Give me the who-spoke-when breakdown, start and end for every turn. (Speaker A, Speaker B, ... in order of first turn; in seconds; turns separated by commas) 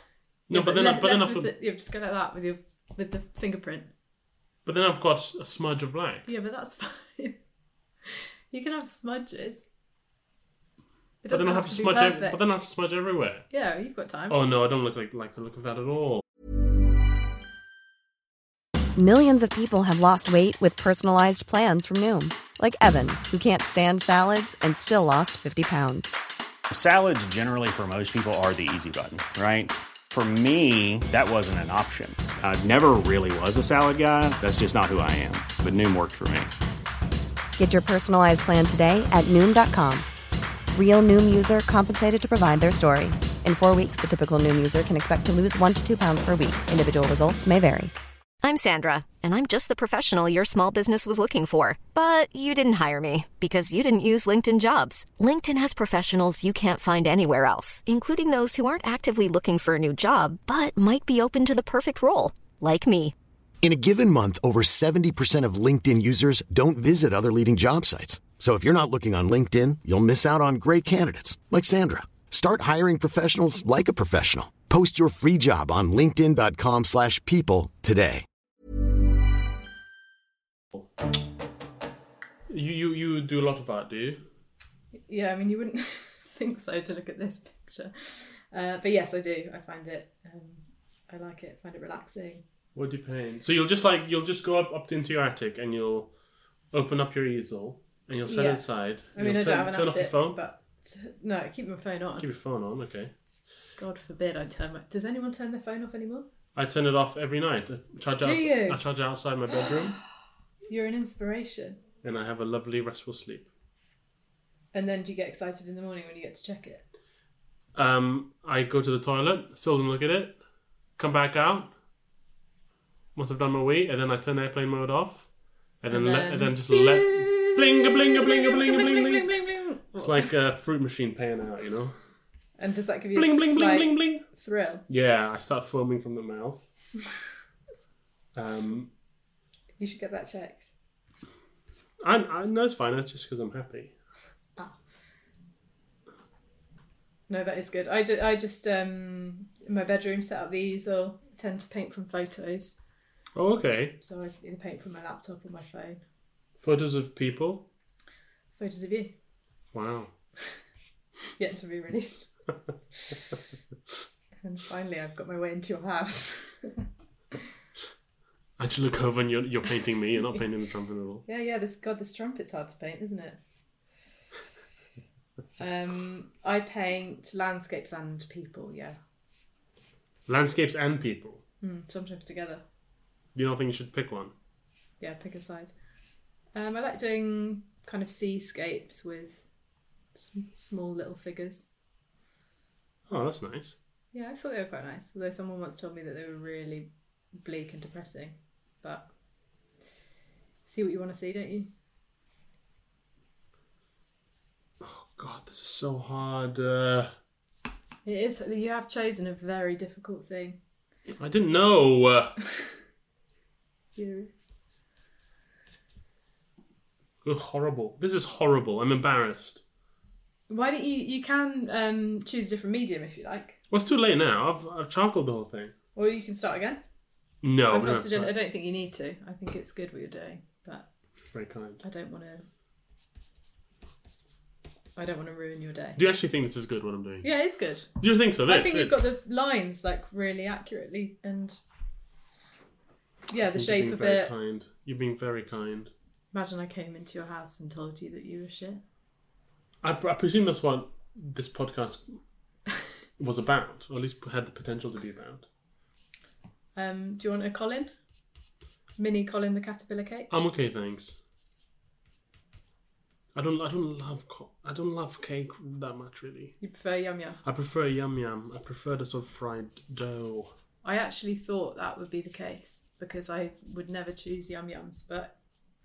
Speaker A: 0.5-1.5, Speaker B: 0.5-3.9, Speaker A: 4.6-6.3, Speaker B: 6.2-7.4, Speaker B: 8.1-9.7, Speaker B: 11.2-12.4, Speaker A: 11.3-13.5, Speaker B: 13.5-14.4, Speaker A: 14.3-16.2, Speaker C: 18.9-26.2, Speaker D: 26.7-36.5, Speaker C: 37.6-40.0, Speaker C: 40.7-47.9, Speaker E: 48.4-63.1, Speaker F: 63.6-78.2, Speaker A: 82.5-84.2, Speaker B: 85.1-92.4, Speaker A: 92.7-96.1, Speaker A: 96.7-100.4, Speaker B: 98.2-102.2, Speaker A: 102.2-103.1, Speaker B: 103.8-106.3, Speaker A: 106.5-110.0, Speaker B: 108.2-108.8, Speaker B: 110.7-111.8, Speaker A: 112.0-113.5, Speaker B: 114.7-116.8, Speaker A: 117.7-120.4, Speaker A: 121.0-121.7, Speaker A: 123.1-125.3, Speaker A: 125.8-129.3, Speaker B: 125.9-130.3, Speaker A: 129.9-131.9, Speaker B: 132.6-134.8, Speaker A: 133.1-134.2, Speaker A: 134.9-136.6, Speaker A: 138.3-138.9, Speaker B: 139.8-140.7, Speaker A: 142.0-143.9, Speaker B: 147.3-152.8, Speaker A: 153.3-154.0, Speaker B: 154.0-156.0, Speaker A: 156.6-157.7, Speaker B: 158.6-159.1, Speaker A: 159.7-160.1, Speaker B: 161.4-162.3, Speaker B: 164.4-166.9, Speaker A: 168.6-171.2, Speaker B: 171.2-173.4, Speaker B: 175.6-179.0, Speaker A: 180.3-181.4, Speaker B: 181.6-182.6, Speaker A: 183.3-184.3, Speaker B: 185.0-185.7, Speaker B: 186.5-189.5, Speaker B: 190.1-191.7, Speaker A: 193.1-193.8, Speaker B: 194.1-199.1, Speaker B: 200.6-201.7, Speaker A: 204.8-207.1, Speaker B: 208.0-210.6, Speaker A: 211.2-212.4, Speaker B: 213.9-214.5, Speaker A: 217.2-219.6, Speaker B: 220.5-223.6, Speaker A: 223.7-225.7, Speaker B: 225.9-226.8, Speaker A: 227.4-228.3, Speaker B: 227.7-230.9, Speaker A: 231.3-231.8, Speaker B: 231.8-232.4, Speaker B: 234.9-236.0, Speaker A: 235.9-237.3, Speaker B: 237.2-237.9, Speaker A: 238.0-239.0, Speaker B: 238.4-241.6, Speaker B: 243.3-244.3, Speaker A: 243.5-245.9, Speaker B: 246.3-248.8, Speaker A: 249.8-252.2, Speaker A: 253.2-255.5, Speaker B: 256.8-257.9, Speaker B: 259.0-260.3, Speaker A: 260.3-261.2, Speaker A: 263.3-266.6, Speaker B: 266.6-267.4, Speaker A: 267.4-270.5, Speaker B: 270.8-275.3